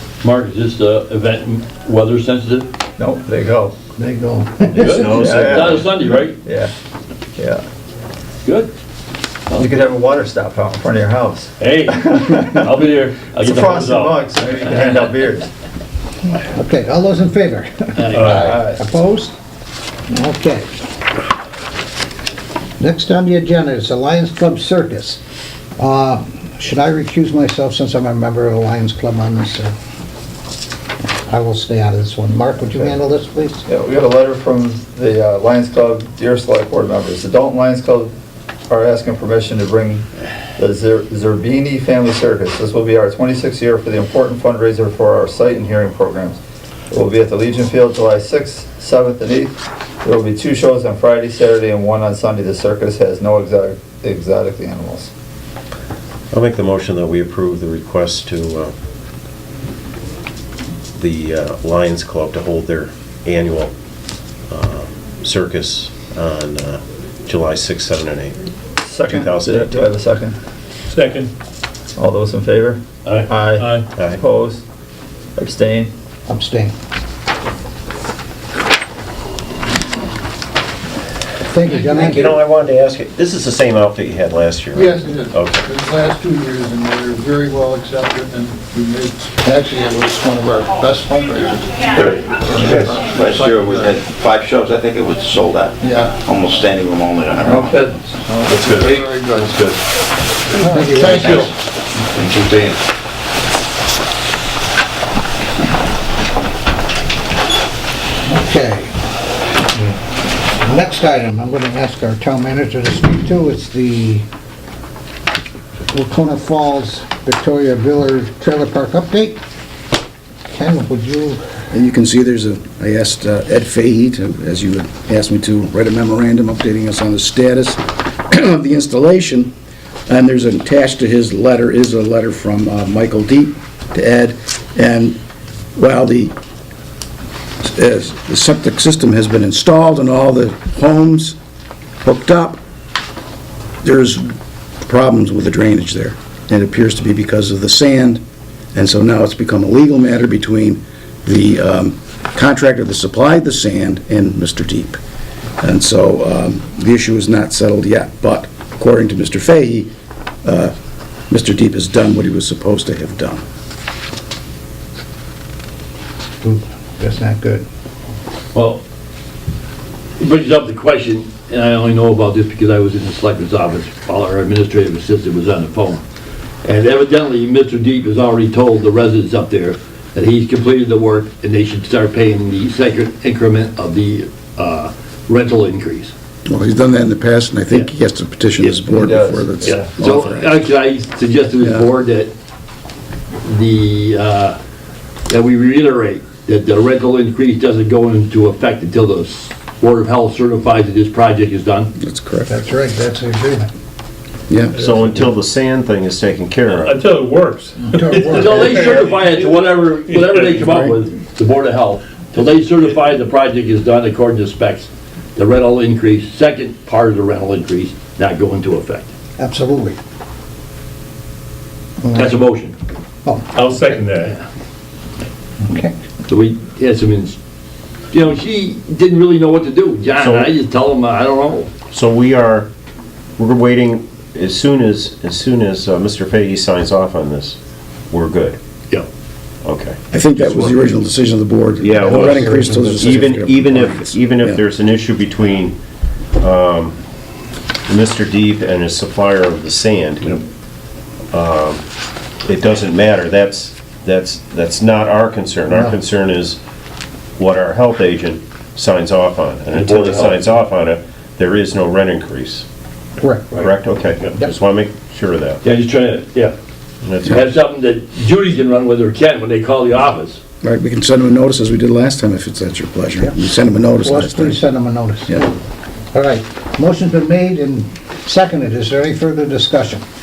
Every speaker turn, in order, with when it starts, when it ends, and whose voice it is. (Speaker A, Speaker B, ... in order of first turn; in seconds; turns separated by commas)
Speaker A: 0.2-2.7, Speaker B: 3.0-3.7, Speaker C: 4.0-5.5, Speaker A: 4.7-6.4, Speaker D: 4.8-5.9, Speaker B: 5.1-5.9, Speaker B: 6.4-6.7, Speaker B: 7.4-7.6, Speaker A: 8.4-8.7, Speaker A: 9.5-9.8, Speaker B: 9.5-12.6, Speaker A: 11.6-14.2, Speaker B: 13.4-15.5, Speaker C: 16.5-19.3, Speaker A: 18.0-18.6, Speaker B: 18.5-18.8, Speaker C: 20.1-20.8, Speaker C: 22.8-25.2, Speaker C: 25.8-29.7, Speaker C: 31.3-33.6, Speaker B: 33.7-38.1, Speaker B: 38.7-46.4, Speaker B: 46.9-55.1, Speaker D: 56.3-58.7, Speaker D: 61.0-63.7, Speaker D: 64.5-68.5, Speaker B: 68.8-70.3, Speaker D: 69.0-69.9, Speaker E: 70.9-71.3, Speaker B: 72.0-74.6, Speaker B: 75.3-75.9, Speaker C: 76.3-76.7, Speaker C: 81.5-82.4, Speaker D: 81.9-85.6, Speaker F: 84.7-94.0, Speaker G: 92.0-97.8, Speaker F: 95.8-96.1, Speaker B: 97.4-98.8, Speaker F: 98.3-99.8, Speaker G: 98.7-99.0, Speaker F: 100.5-101.5, Speaker C: 100.6-101.5, Speaker G: 102.0-102.8, Speaker C: 108.2-108.9, Speaker C: 109.7-110.0, Speaker C: 110.5-114.2, Speaker C: 115.9-119.4, Speaker C: 120.5-121.4, Speaker H: 121.7-129.5, Speaker H: 130.1-135.2, Speaker H: 135.8-136.3, Speaker H: 137.6-141.3, Speaker H: 142.0-142.6, Speaker H: 143.8-148.2, Speaker H: 148.8-155.0, Speaker H: 155.6-159.9, Speaker H: 160.4-160.7, Speaker H: 161.3-163.4, Speaker C: 166.4-167.6, Speaker A: 168.5-168.8, Speaker A: 170.2-176.0, Speaker A: 176.6-186.1, Speaker H: 186.4-190.6, Speaker B: 188.9-189.9, Speaker A: 189.6-192.3, Speaker A: 193.4-194.6, Speaker A: 195.3-201.9, Speaker H: 202.0-202.5, Speaker C: 202.5-203.7, Speaker H: 204.5-204.8, Speaker E: 204.8-205.0, Speaker D: 204.8-207.0, Speaker E: 206.8-209.3, Speaker C: 207.8-208.8, Speaker A: 208.3-219.1, Speaker C: 219.4-220.0, Speaker C: 222.0-222.4, Speaker A: 222.1-222.8, Speaker E: 223.6-224.3, Speaker C: 225.6-225.9, Speaker A: 226.3-227.4, Speaker A: 228.1-231.7, Speaker D: 230.2-230.5, Speaker D: 231.9-232.7, Speaker D: 233.4-237.6, Speaker D: 238.1-238.6, Speaker D: 239.6-240.0, Speaker H: 240.1-244.6, Speaker A: 240.4-240.8, Speaker D: 241.8-242.3, Speaker C: 241.9-243.2, Speaker A: 242.1-242.4, Speaker D: 243.0-245.8, Speaker D: 246.4-247.0, Speaker D: 247.9-250.4, Speaker D: 251.3-251.8, Speaker D: 252.4-256.6, Speaker C: 255.7-256.0, Speaker D: 257.4-262.7, Speaker A: 259.7-260.4, Speaker C: 263.2-264.5, Speaker D: 263.6-265.6, Speaker A: 265.6-266.6, Speaker D: 267.0-267.4, Speaker A: 267.2-270.4, Speaker H: 270.6-274.6, Speaker C: 274.0-275.5, Speaker C: 276.1-280.1